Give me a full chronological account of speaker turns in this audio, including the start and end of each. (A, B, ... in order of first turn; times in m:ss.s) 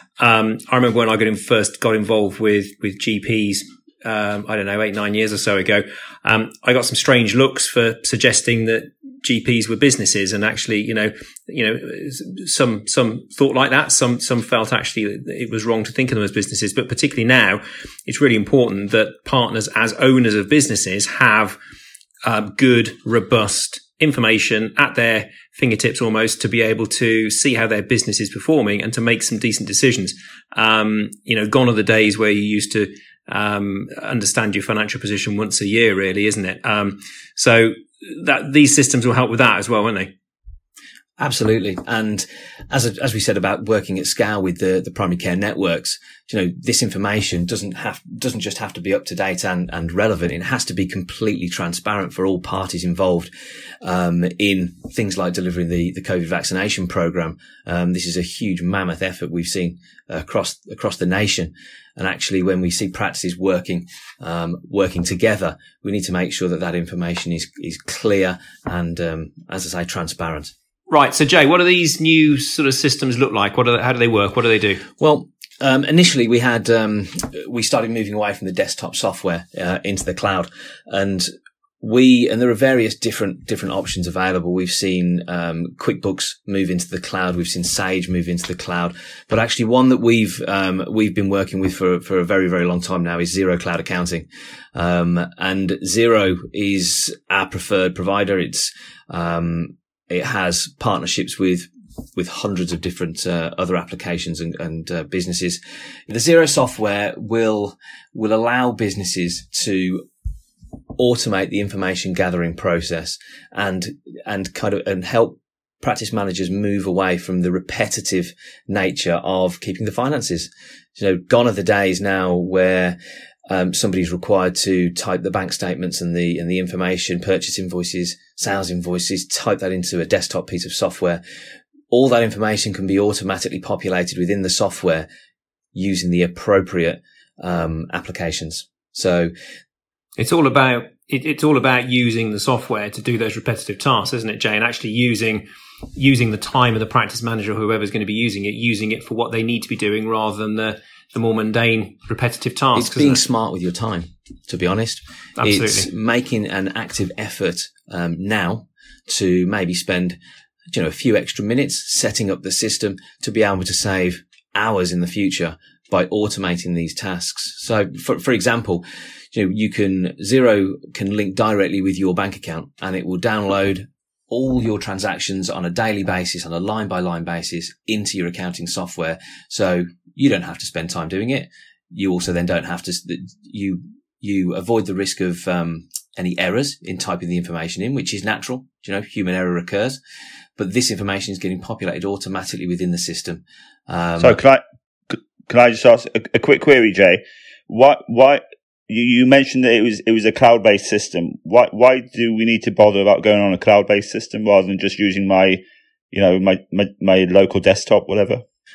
0:00.2-0:21.6 A
0:22.2-0:40.1 A
0:41.2-0:53.3 B
0:53.8-1:10.5 B
1:10.9-1:14.8 A
1:15.0-1:21.3 B
1:21.8-1:50.0 B
1:51.0-2:11.2 B
2:11.9-2:15.1 B
2:15.7-2:19.3 B
2:20.2-2:33.2 A
2:32.7-2:40.2 B
2:35.4-2:35.9 A
2:40.7-3:10.0 B
3:10.6-3:14.4 B
3:14.2-3:28.4 C